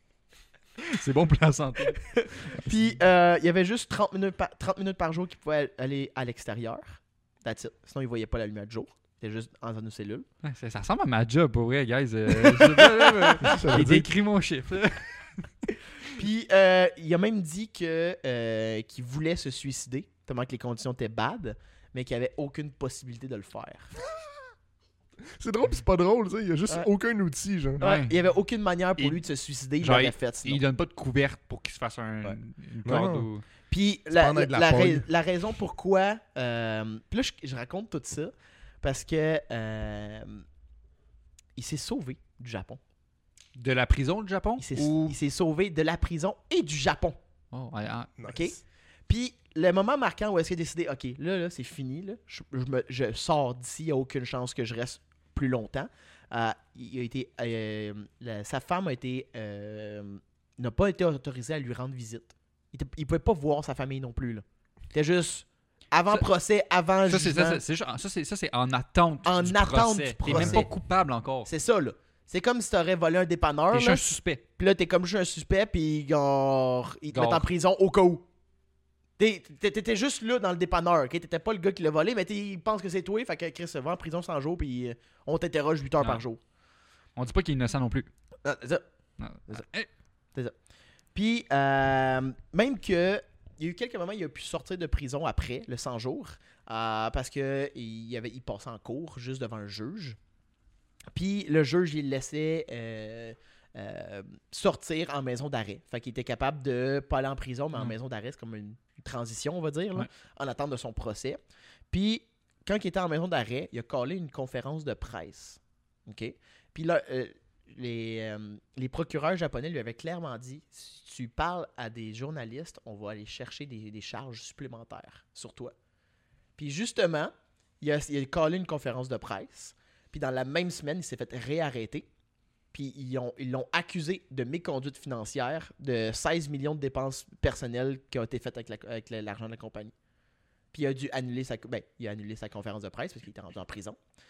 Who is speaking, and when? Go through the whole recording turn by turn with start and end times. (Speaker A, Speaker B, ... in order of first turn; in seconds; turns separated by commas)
Speaker A: 0.8-2.0, Speaker B: 1.9-10.2, Speaker A: 10.4-15.1, Speaker B: 12.4-13.8, Speaker C: 13.4-14.1, Speaker B: 16.1-23.9, Speaker C: 25.2-27.8, Speaker A: 27.8-28.1, Speaker B: 27.8-30.6, Speaker A: 29.8-33.4, Speaker C: 32.8-33.3, Speaker B: 33.7-40.4, Speaker C: 34.1-35.0, Speaker B: 41.5-42.8, Speaker A: 43.5-45.1, Speaker B: 44.6-47.2, Speaker A: 47.5-48.1, Speaker C: 48.2-48.5, Speaker B: 48.2-67.6, Speaker A: 67.0-71.5, Speaker B: 69.2-70.7, Speaker C: 70.3-70.7, Speaker B: 71.5-78.2, Speaker A: 73.7-74.4, Speaker A: 77.1-77.5, Speaker B: 79.2-86.4, Speaker A: 87.2-88.1, Speaker B: 88.4-88.8, Speaker A: 89.2-89.9, Speaker B: 91.1-100.2, Speaker B: 101.1-111.4, Speaker B: 111.9-125.7, Speaker B: 126.6-132.1, Speaker B: 132.7-139.9, Speaker B: 140.7-144.0